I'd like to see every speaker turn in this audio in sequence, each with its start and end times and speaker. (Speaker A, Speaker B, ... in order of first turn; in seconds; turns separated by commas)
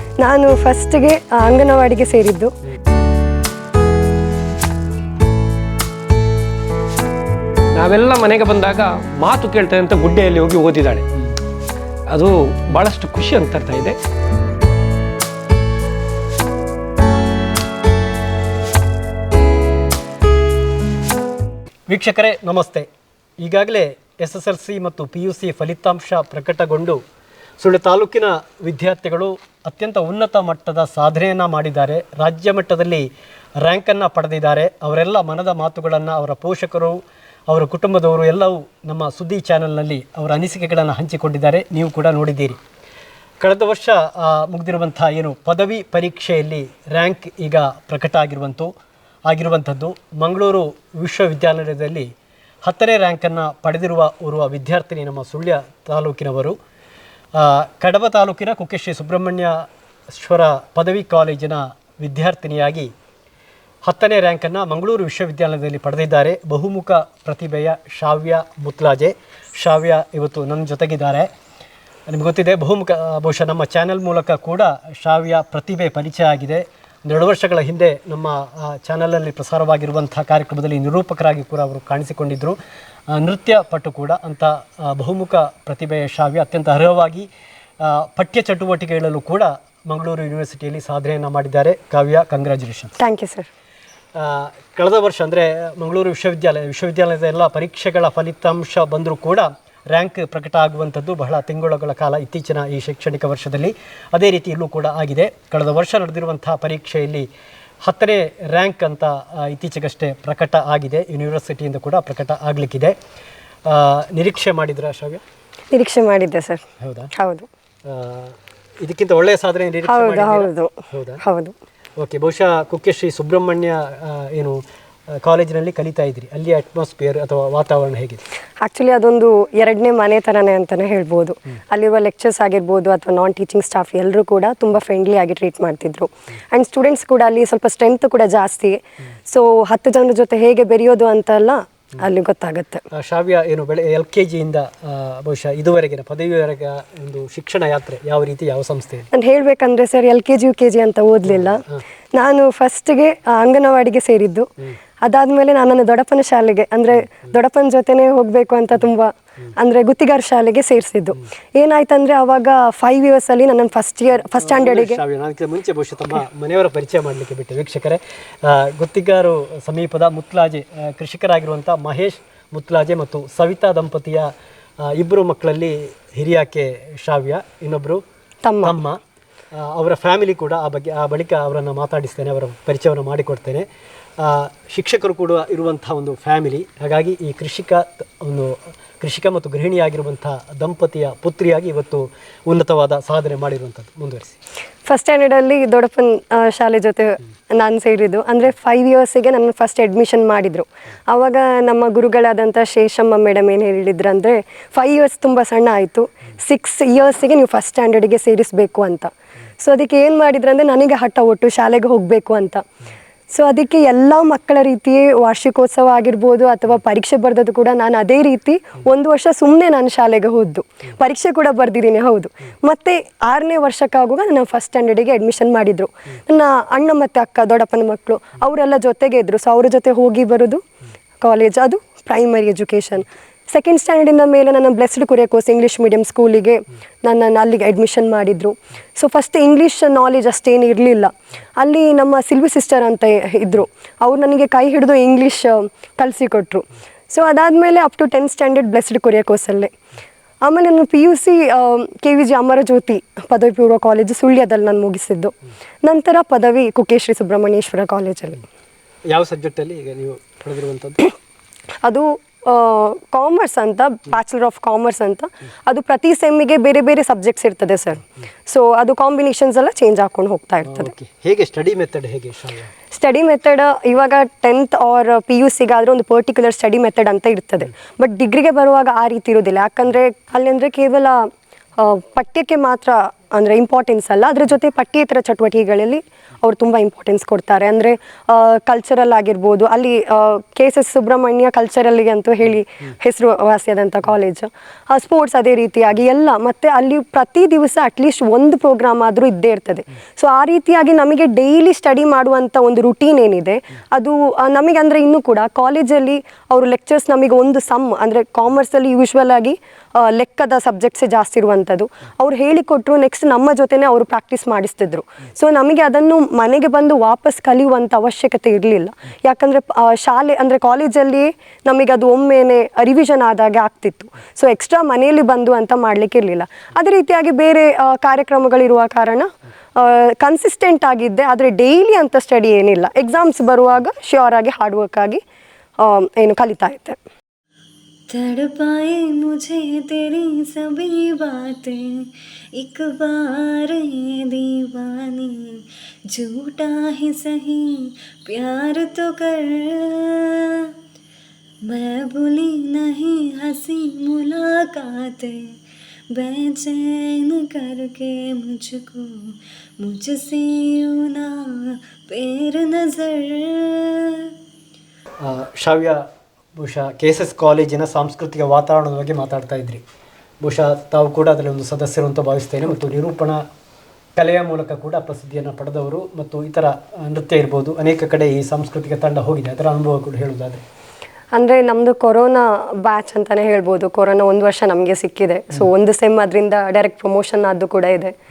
Speaker A: 0.2-2.5, Speaker B: 7.7-11.1, Speaker B: 12.1-14.0, Speaker C: 21.9-22.9, Speaker C: 23.4-27.0, Speaker C: 27.6-42.6, Speaker C: 43.4-48.7, Speaker C: 49.3-52.1, Speaker C: 52.6-56.6, Speaker C: 57.3-62.9, Speaker C: 63.8-71.3, Speaker C: 72.1-82.6, Speaker C: 83.1-87.3, Speaker C: 87.8-92.9, Speaker A: 93.0-93.5, Speaker C: 94.2-107.3, Speaker C: 107.8-113.0, Speaker C: 113.7-115.2, Speaker A: 115.7-116.6, Speaker C: 116.8-117.1, Speaker A: 117.2-117.5, Speaker C: 117.8-121.2, Speaker A: 119.8-121.5, Speaker C: 122.0-124.6, Speaker C: 125.2-128.2, Speaker A: 128.6-142.8, Speaker C: 142.9-149.1, Speaker A: 149.1-151.6, Speaker A: 152.1-154.5, Speaker A: 155.0-165.0, Speaker C: 164.4-174.3, Speaker C: 174.8-178.0, Speaker A: 178.4-178.8, Speaker C: 178.6-179.0, Speaker C: 179.5-183.7, Speaker C: 184.2-194.3, Speaker A: 194.8-212.6, Speaker A: 213.3-230.6, Speaker A: 231.2-249.7, Speaker A: 250.4-258.4, Speaker C: 259.1-261.1, Speaker A: 261.8-270.9, Speaker C: 270.6-272.7, Speaker A: 272.9-281.3, Speaker A: 281.8-335.2, Speaker A: 335.8-337.0, Speaker D: 338.1-350.5, Speaker D: 351.6-355.5, Speaker D: 356.1-364.0, Speaker C: 365.2-366.0, Speaker C: 366.6-369.8, Speaker C: 370.4-373.4, Speaker C: 374.1-380.6, Speaker A: 381.3-388.1